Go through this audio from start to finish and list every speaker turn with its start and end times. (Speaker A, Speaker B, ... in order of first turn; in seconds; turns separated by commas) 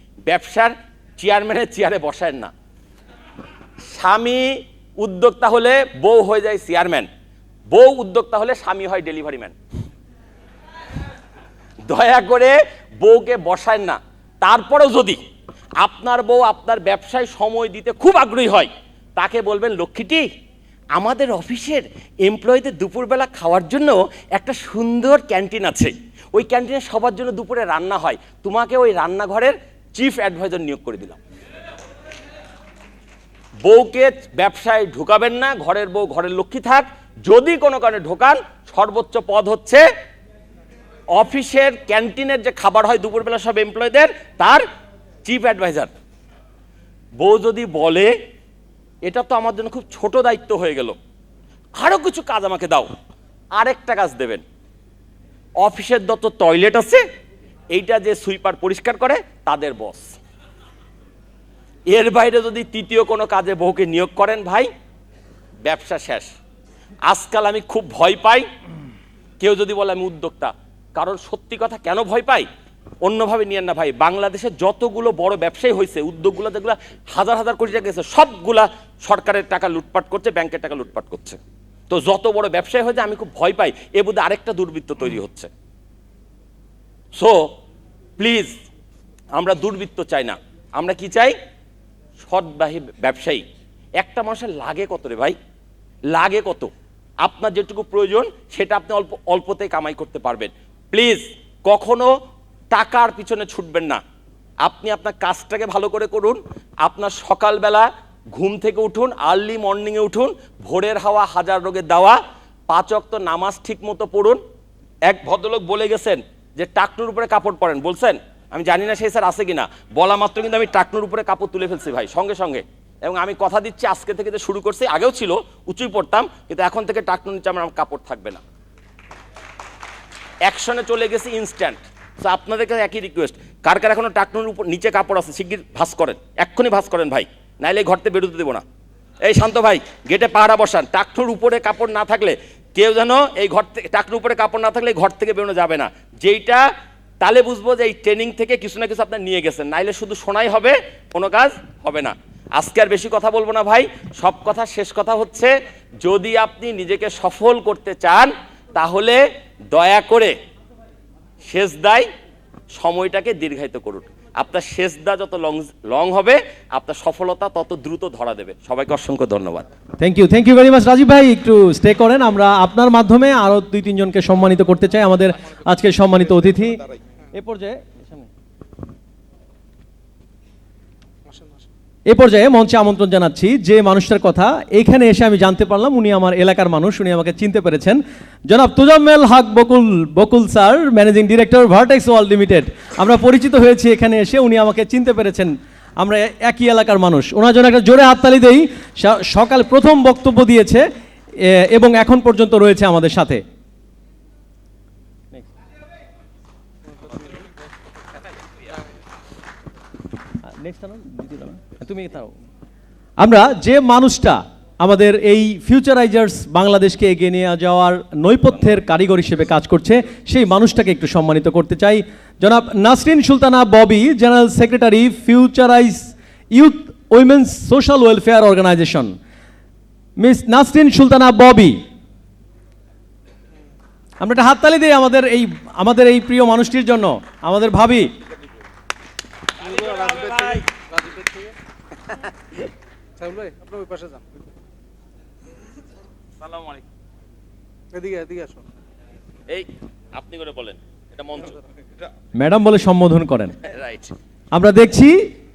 Speaker A: 0.3-2.5, Speaker A: 3.9-7.1, Speaker A: 7.7-9.6, Speaker A: 11.8-15.2, Speaker A: 15.8-20.3, Speaker A: 20.9-31.2, Speaker A: 33.6-39.9, Speaker A: 41.1-44.6, Speaker A: 45.2-45.9, Speaker A: 47.2-48.1, Speaker A: 49.0-51.0, Speaker A: 51.8-52.9, Speaker A: 53.6-54.4, Speaker A: 55.6-57.0, Speaker A: 57.7-60.2, Speaker A: 61.9-64.7, Speaker A: 65.7-66.3, Speaker A: 67.1-68.5, Speaker A: 69.4-72.5, Speaker A: 73.0-81.4, Speaker A: 81.9-85.5, Speaker A: 87.2-87.5, Speaker A: 88.2-88.5, Speaker A: 89.3-91.3, Speaker A: 92.2-93.4, Speaker A: 94.0-95.4, Speaker A: 96.1-96.7, Speaker A: 97.2-102.1, Speaker A: 102.7-104.0, Speaker A: 104.6-114.4, Speaker A: 115.1-128.4, Speaker A: 130.4-138.6, Speaker A: 139.2-146.7, Speaker A: 147.2-160.3, Speaker A: 161.4-162.1, Speaker A: 162.7-169.7, Speaker B: 170.0-176.8, Speaker B: 177.3-178.3, Speaker C: 181.3-181.7, Speaker B: 182.1-200.9, Speaker B: 201.4-203.4, Speaker B: 210.6-212.3, Speaker B: 213.2-229.2, Speaker B: 230.2-231.8, Speaker B: 234.2-238.1, Speaker A: 239.6-240.7, Speaker C: 239.6-241.6, Speaker C: 243.2-244.2, Speaker A: 246.4-246.8, Speaker C: 247.9-248.7, Speaker A: 249.5-251.6, Speaker B: 252.4-253.6, Speaker A: 253.6-254.1, Speaker B: 254.5-255.2